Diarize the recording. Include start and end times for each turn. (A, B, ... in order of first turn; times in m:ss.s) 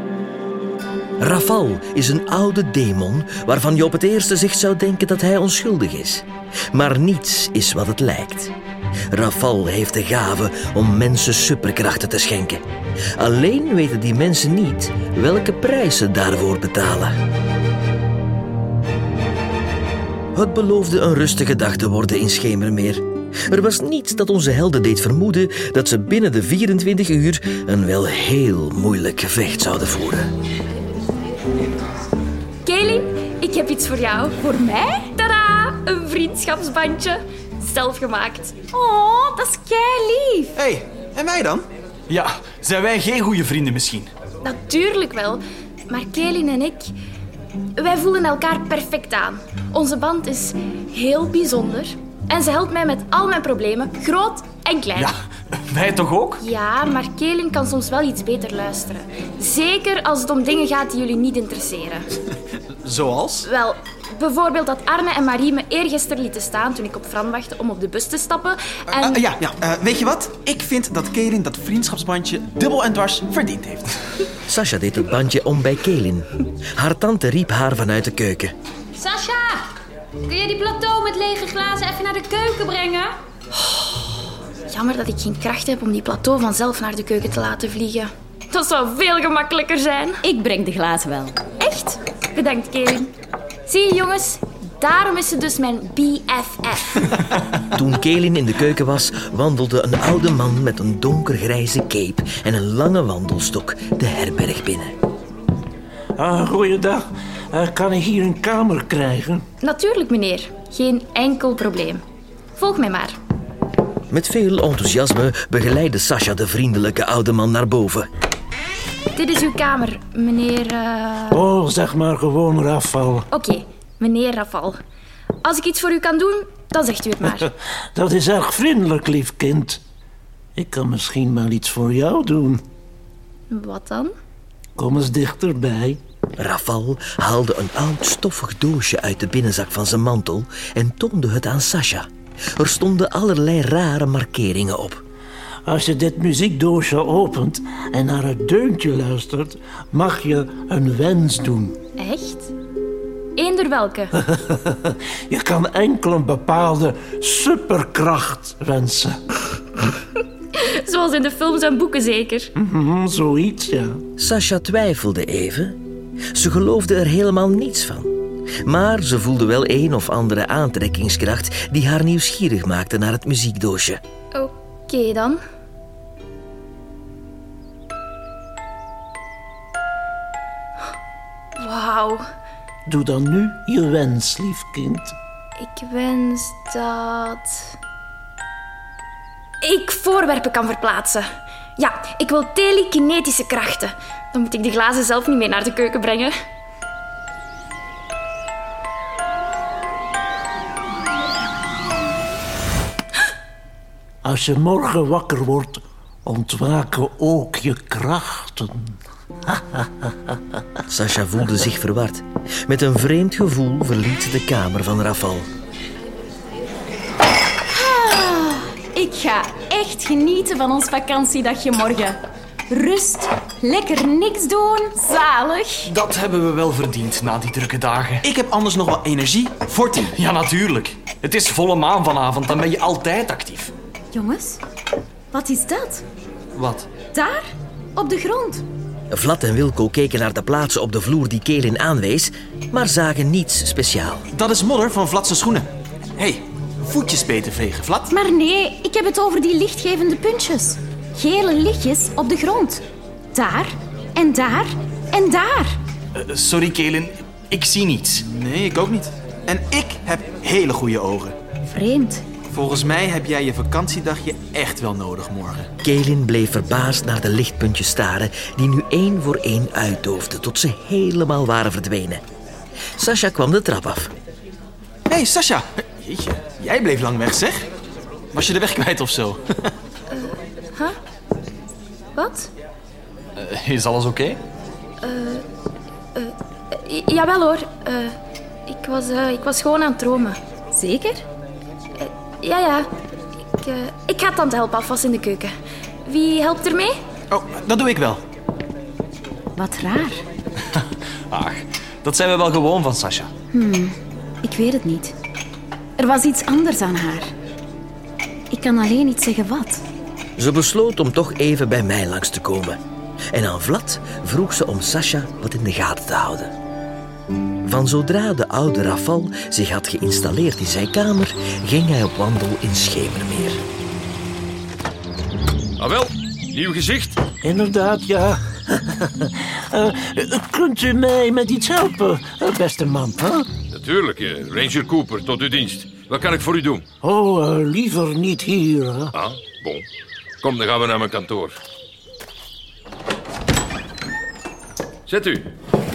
0:01.2-0:08.5 A
0:09.1-0:12.6 A
0:13.2-0:17.2 A
0:20.3-0:30.3 A
0:32.6-0:34.4 B
0:34.4-0:35.1 C
0:35.2-0:38.5 B
0:38.7-0:40.6 C
0:40.6-0:41.7 D
0:42.1-0:44.1 E
0:44.4-0:46.9 B
0:47.8-0:55.1 B
0:55.7-0:56.4 E
0:56.4-1:02.1 B
1:02.8-1:03.4 D
1:03.4-1:09.2 B
1:09.0-1:14.0 D
1:14.5-1:18.5 A
1:19.0-1:19.7 F
1:20.2-1:23.2 F
1:23.6-1:24.0 B
1:24.7-1:30.2 B
1:30.2-1:31.4 C
1:31.6-1:33.1 B
1:33.7-1:37.2 B
1:37.7-1:44.9 A
1:46.2-1:49.4 G
1:49.6-1:52.0 B
1:52.6-1:53.2 B
1:54.1-1:58.1 A
1:59.2-2:01.4 B
2:01.3-2:03.3 G
2:03.3-2:04.8 B
2:05.4-2:07.5 B
2:07.9-2:09.8 G
2:10.6-2:12.6 G
2:13.5-2:14.1 B
2:14.8-2:16.0 G
2:16.4-2:25.0 A
2:25.6-2:31.8 G
2:32.0-2:32.5 B
2:33.4-2:34.1 B
2:34.2-2:39.4 G
2:40.5-2:42.5 B
2:42.6-2:44.0 G
2:44.2-2:45.8 A
2:46.3-2:48.1 A
2:48.6-2:54.0 A
2:54.3-2:55.4 B
3:01.6-3:02.3 B
3:02.9-3:05.1 G
3:05.6-3:07.7 B
3:09.6-3:16.3 B
3:24.2-3:30.4 G
3:30.9-3:35.5 A
3:37.7-3:45.9 C
3:45.8-3:48.3 E
3:48.2-3:50.2 D
3:50.1-3:53.7 E
3:54.1-3:54.6 C
3:55.3-3:56.0 C
3:56.5-3:56.9 E
3:57.1-3:58.6 C
3:59.1-4:04.2 A
4:04.3-4:08.1 D
4:08.1-4:12.8 C
4:13.3-4:15.8 C
4:16.1-4:18.2 E
4:18.2-4:21.4 D
4:21.7-4:22.2 C
4:22.5-4:25.7 D
4:25.8-4:32.2 A
4:33.0-4:34.1 A
4:35.1-4:37.7 D
4:38.3-4:39.4 D
4:40.1-4:41.0 B
4:42.2-4:42.5 B
4:43.4-4:44.4 E
4:45.0-4:45.4 B
4:46.1-4:48.2 B
4:48.7-4:50.4 B
4:50.7-4:51.2 C
4:52.0-4:52.9 B
4:53.6-4:55.5 B
4:56.0-4:57.0 B
4:57.3-4:58.2 D
4:59.6-5:00.2 C
5:00.8-5:03.3 E
5:03.5-5:05.1 C
5:06.0-5:07.3 C
5:08.5-5:09.8 C
5:10.4-5:12.8 A
5:13.3-5:16.5 A
5:17.6-5:23.6 A
5:25.8-5:27.2 H
5:27.4-5:33.5 G
5:33.7-5:36.8 H
5:37.0-5:39.1 G
5:39.1-5:39.8 H
5:40.4-5:41.6 H
5:45.1-5:45.5 H